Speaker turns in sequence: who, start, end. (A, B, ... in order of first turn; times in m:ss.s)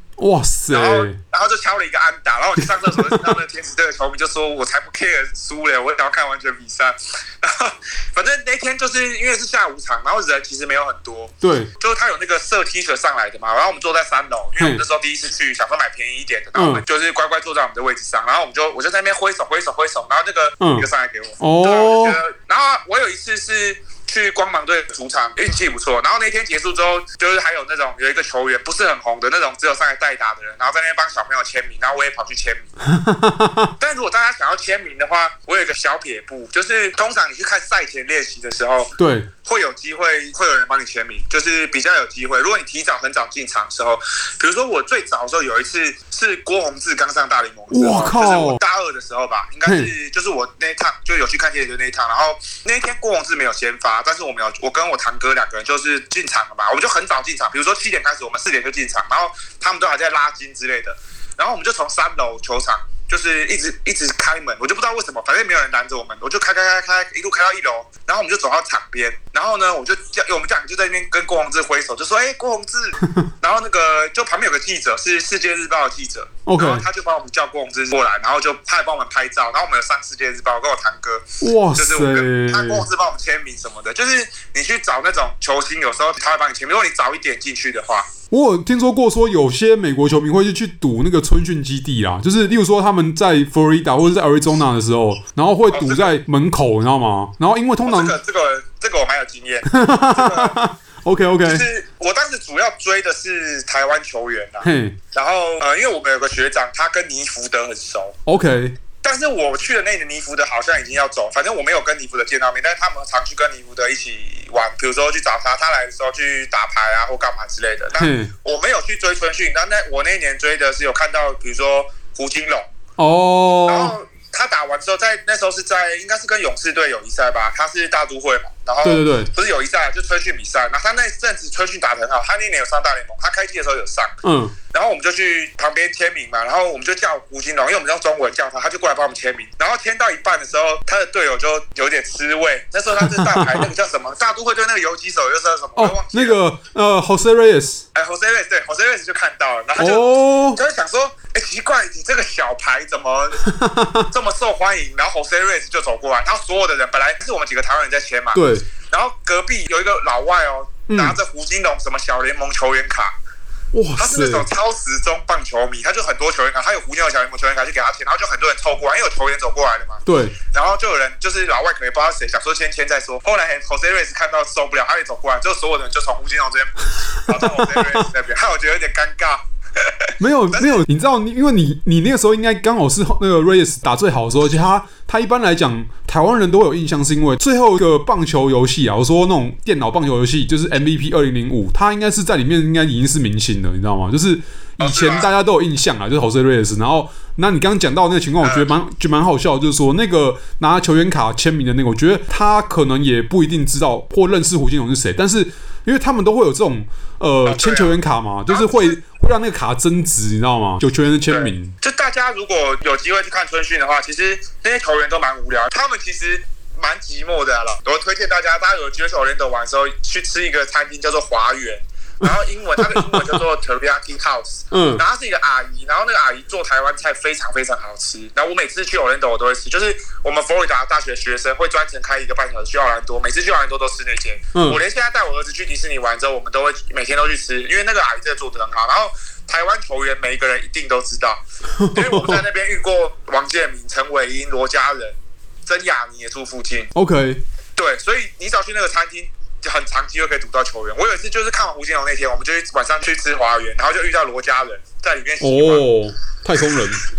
0:00.2-0:01.2 A
0:00.7-0:32.7 B
0:02.6-0:03.3 A
0:11.4-0:11.7 A
0:16.6-0:16.8 A
0:20.6-0:20.9 A
0:21.4-0:22.2 A
0:32.8-0:33.7 A
0:33.8-0:38.9 B
0:39.0-0:39.3 A
0:39.4-1:28.1 B
0:47.7-0:48.6 A
1:13.0-1:13.3 A
1:16.4-1:16.8 A
1:21.4-1:22.8 A
1:28.3-1:38.2 A
1:35.7-1:36.2 B
1:37.8-1:40.6 B
1:39.7-1:41.6 A
1:41.4-1:48.2 B
1:44.6-1:45.0 A
1:48.3-1:48.8 A
1:49.0-2:02.7 B
1:58.0-1:58.3 A
2:03.0-2:03.9 A
2:03.7-2:14.1 B
2:08.8-2:09.3 A
2:14.2-2:14.5 A
2:14.7-2:26.4 B
2:23.0-2:23.7 A
2:25.8-2:27.8 A
2:27.9-2:33.4 B
2:29.8-2:30.6 A
2:33.4-2:34.1 A
2:34.1-2:43.1 B
2:38.3-2:38.6 A
2:40.9-2:41.2 A
2:43.7-2:44.4 A
2:44.0-3:00.8 B
2:50.0-2:50.3 A
2:57.3-2:58.0 A
3:00.2-3:31.7 A
3:14.8-3:15.3 B
3:18.4-3:18.7 B
3:27.4-3:28.0 B
3:28.5-3:29.0 B
3:31.3-4:06.9 B
3:42.8-3:43.4 A
3:44.7-3:45.0 A
3:54.5-3:54.8 A
4:01.8-4:02.4 A
4:06.9-4:07.4 A
4:07.8-4:15.8 B
4:15.4-4:17.0 A